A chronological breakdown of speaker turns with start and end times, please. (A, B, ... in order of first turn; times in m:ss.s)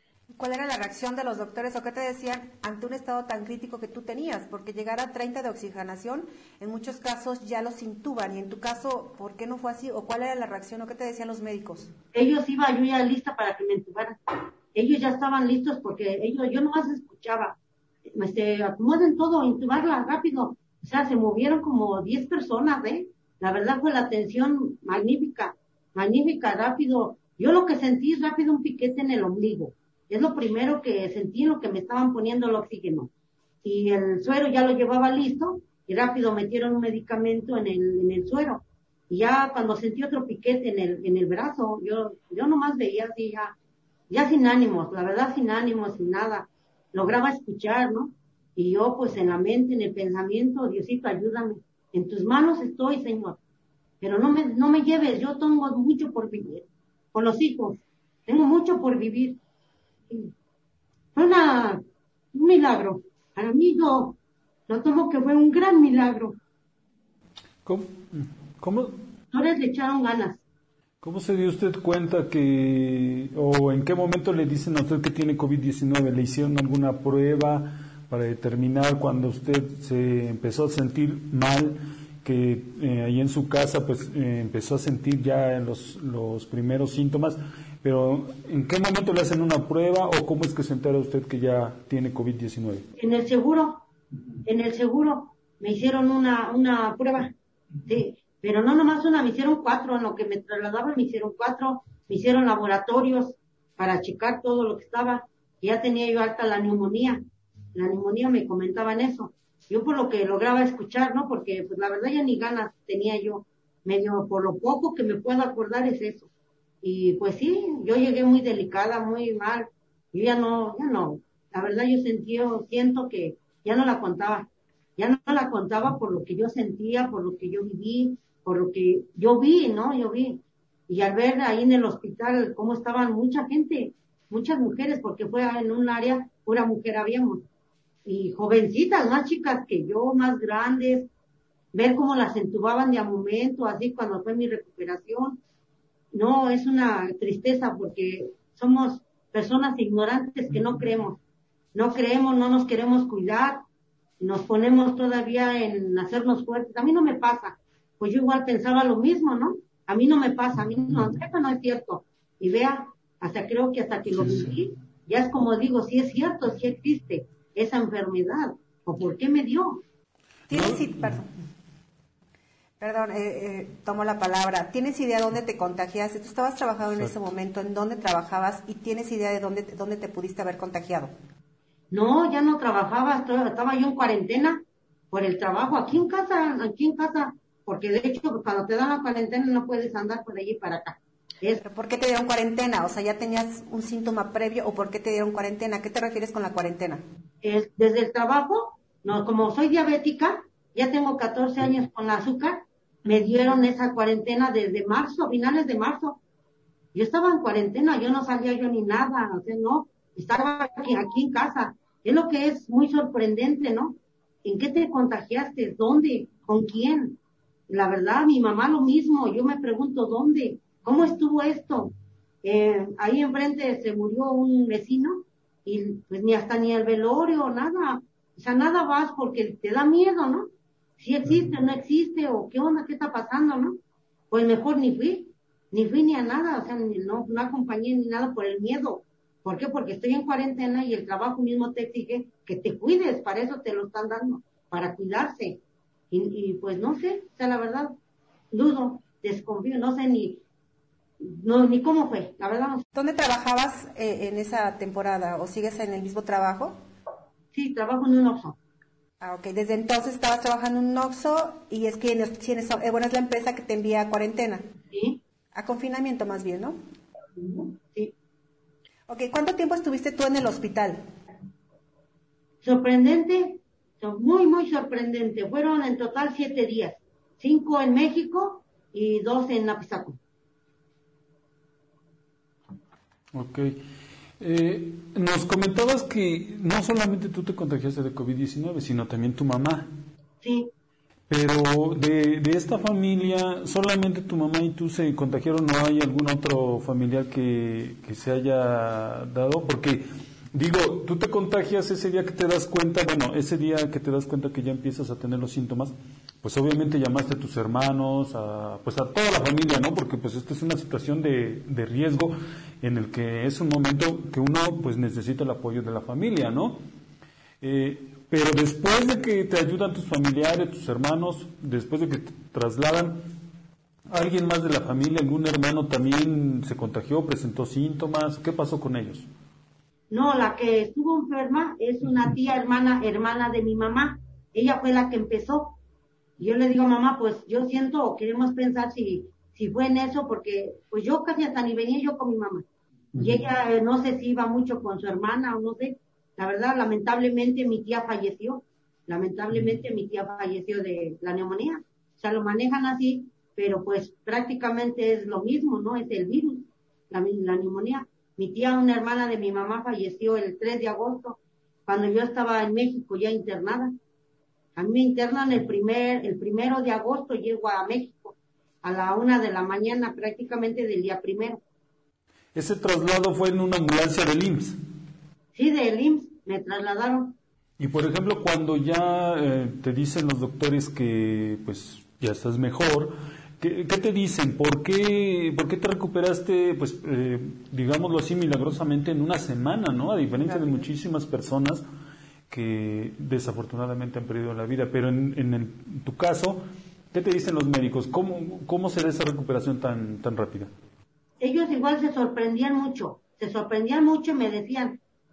0:00.3-0:11.9 A
0:12.1-0:14.2 B
0:14.7-0:17.6 B
0:18.1-0:33.1 B
0:33.6-0:43.6 B
0:44.1-0:53.4 B
0:54.0-0:59.4 B
1:01.1-1:01.8 B
1:02.3-1:04.2 B
1:04.7-1:06.4 B
1:07.6-1:09.0 C
1:09.3-1:10.4 B
1:11.0-1:32.9 C
1:33.0-1:33.9 B
1:34.4-1:37.3 B
1:37.8-1:47.2 B
1:47.7-1:56.3 B
1:56.8-2:17.4 B
2:18.0-2:21.1 B
2:21.7-2:25.4 B
2:26.1-2:31.2 B
2:31.7-2:33.6 B
2:34.2-2:49.8 B
2:50.5-2:51.2 C
2:50.5-2:51.3 A
2:52.8-3:01.1 A
3:01.9-3:11.6 B
3:11.6-3:17.0 A
3:17.4-3:26.2 B
3:26.9-3:53.8 B
3:54.3-4:05.6 B
4:06.1-4:07.9 B
4:08.5-4:10.4 B
4:11.2-4:12.8 B
4:12.9-4:16.8 A
4:17.5-4:18.6 B
4:19.2-4:24.6 A
4:24.9-4:25.2 B
4:25.5-4:26.8 A
4:27.4-4:28.1 B
4:29.1-4:31.0 A
4:32.6-4:40.2 B
4:43.3-4:43.8 C
4:44.4-4:49.9 C
4:50.4-4:50.7 B
4:51.3-5:16.8 C
5:17.6-5:23.2 C
5:24.1-5:29.3 C
5:30.1-5:35.8 B
5:36.4-5:42.6 B
5:43.2-6:03.9 B
6:04.8-6:11.6 B
6:12.5-6:14.8 C
6:15.5-6:17.4 B
6:17.8-6:31.8 C
6:32.5-6:40.7 C
6:41.4-6:45.0 B